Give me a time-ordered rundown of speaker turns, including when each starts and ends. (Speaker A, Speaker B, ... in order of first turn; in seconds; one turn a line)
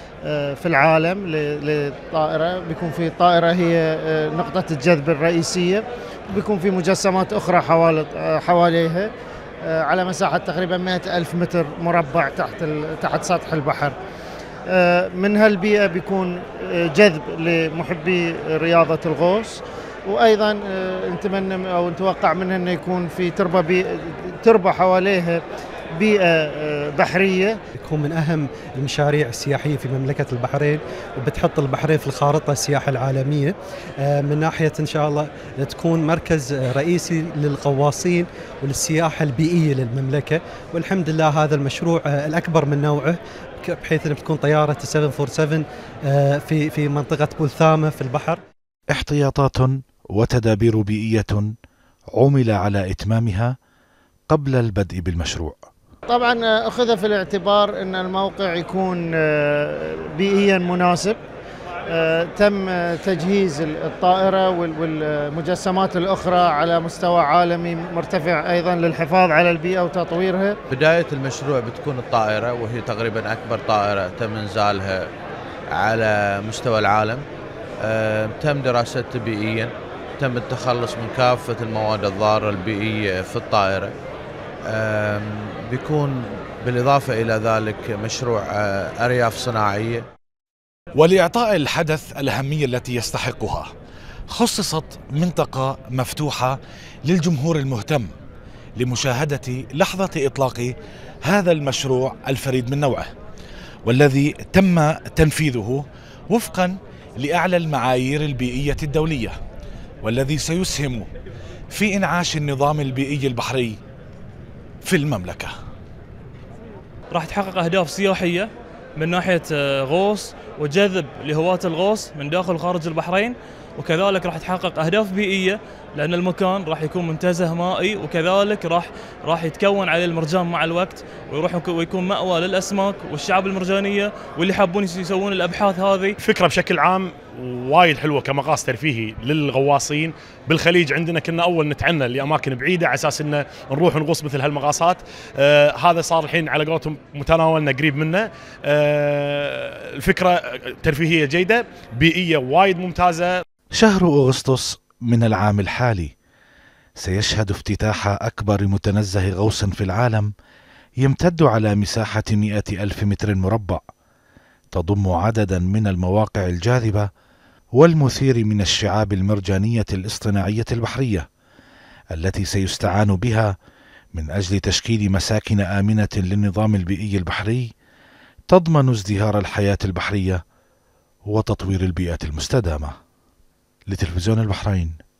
Speaker A: 0.2-9.1
Speaker A: 9.7-13.9
Speaker A: 14.7-25.4
Speaker A: 25.9-27.5
Speaker B: 27.8-48.4
Speaker C: 48.9-51.5
Speaker C: 52.1-53.5
Speaker C: 54.3-55.6
Speaker A: 56.1-61.2
Speaker A: 61.9-70.6
Speaker D: 70.7-75.1
Speaker D: 75.7-77.2
Speaker D: 77.8-83.9
Speaker D: 84.7-90.0
Speaker C: 90.9-93.7
Speaker C: 94.3-98.1
Speaker C: 98.8-103.1
Speaker C: 103.8-109.3
Speaker C: 110.0-111.1
Speaker C: 111.7-113.8
Speaker C: 114.8-115.5
Speaker E: 117.1-136.2
Speaker F: 136.2-153.4
Speaker C: 153.8-156.1
Speaker C: 157.0-160.3
Speaker C: 161.0-163.8
Speaker C: 164.7-167.1
Speaker C: 167.8-171.2
Speaker C: 172.1-173.5
Speaker C: 174.1-177.7
Speaker C: 178.5-180.4
Speaker C: 181.3-182.9
Speaker C: 183.9-184.9